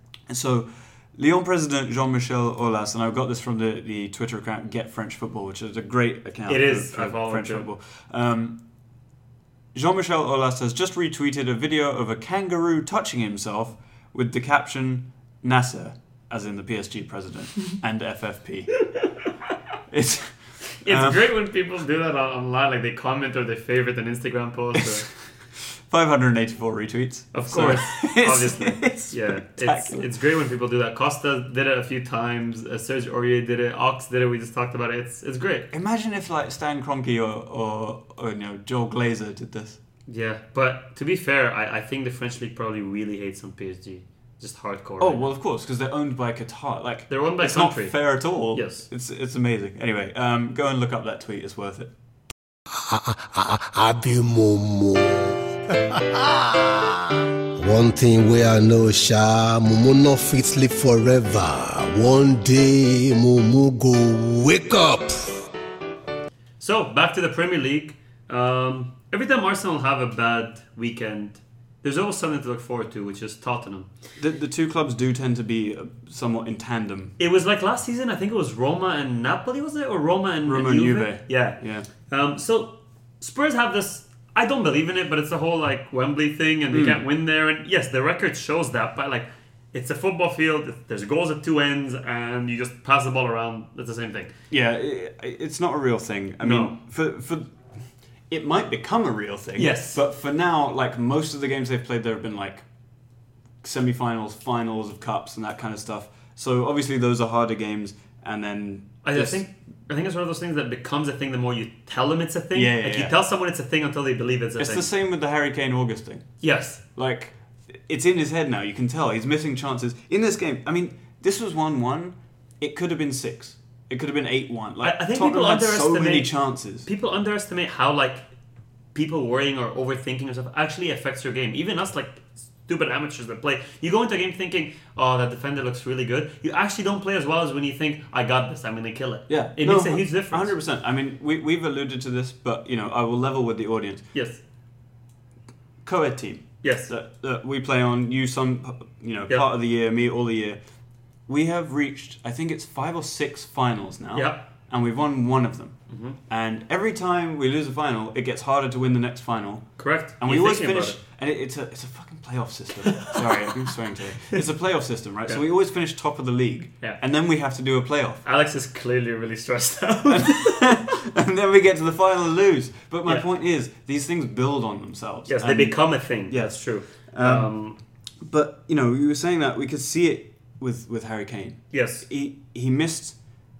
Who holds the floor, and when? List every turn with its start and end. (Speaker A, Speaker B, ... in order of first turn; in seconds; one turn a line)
Speaker A: 0.3-8.6
Speaker B: 6.5-7.7
Speaker A: 9.7-18.7
Speaker A: 19.9-21.2
Speaker B: 20.8-25.1
Speaker A: 25.6-30.1
Speaker B: 27.3-35.7
Speaker A: 35.7-39.8
Speaker B: 40.1-45.2
Speaker A: 45.0-51.9
Speaker B: 47.1-48.0
Speaker B: 48.5-48.9
Speaker C: 52.7-65.4
Speaker B: 66.6-73.9
Speaker A: 74.2-77.1
Speaker B: 77.2-94.3
Speaker A: 80.5-81.9
Speaker A: 86.7-87.0
Speaker A: 94.5-97.5
Speaker B: 96.4-96.8
Speaker A: 98.3-102.6
Speaker B: 99.5-100.0
Speaker A: 103.6-109.4
Speaker B: 109.0-114.9
Speaker A: 112.5-113.1
Speaker A: 114.6-116.3
Speaker B: 116.4-116.8
Speaker A: 117.0-126.9
Speaker B: 124.8-128.2
Speaker B: 128.9-140.5
Speaker A: 139.3-144.0
Speaker B: 144.1-144.4
Speaker A: 145.8-150.6
Speaker B: 146.6-146.9
Speaker A: 151.3-168.2
Speaker B: 154.1-154.4
Speaker B: 155.9-156.2
Speaker B: 159.8-161.0
Speaker B: 162.8-163.7
Speaker B: 168.2-170.8
Speaker A: 170.1-177.5
Speaker B: 175.3-177.8
Speaker A: 178.2-183.2
Speaker B: 181.7-182.1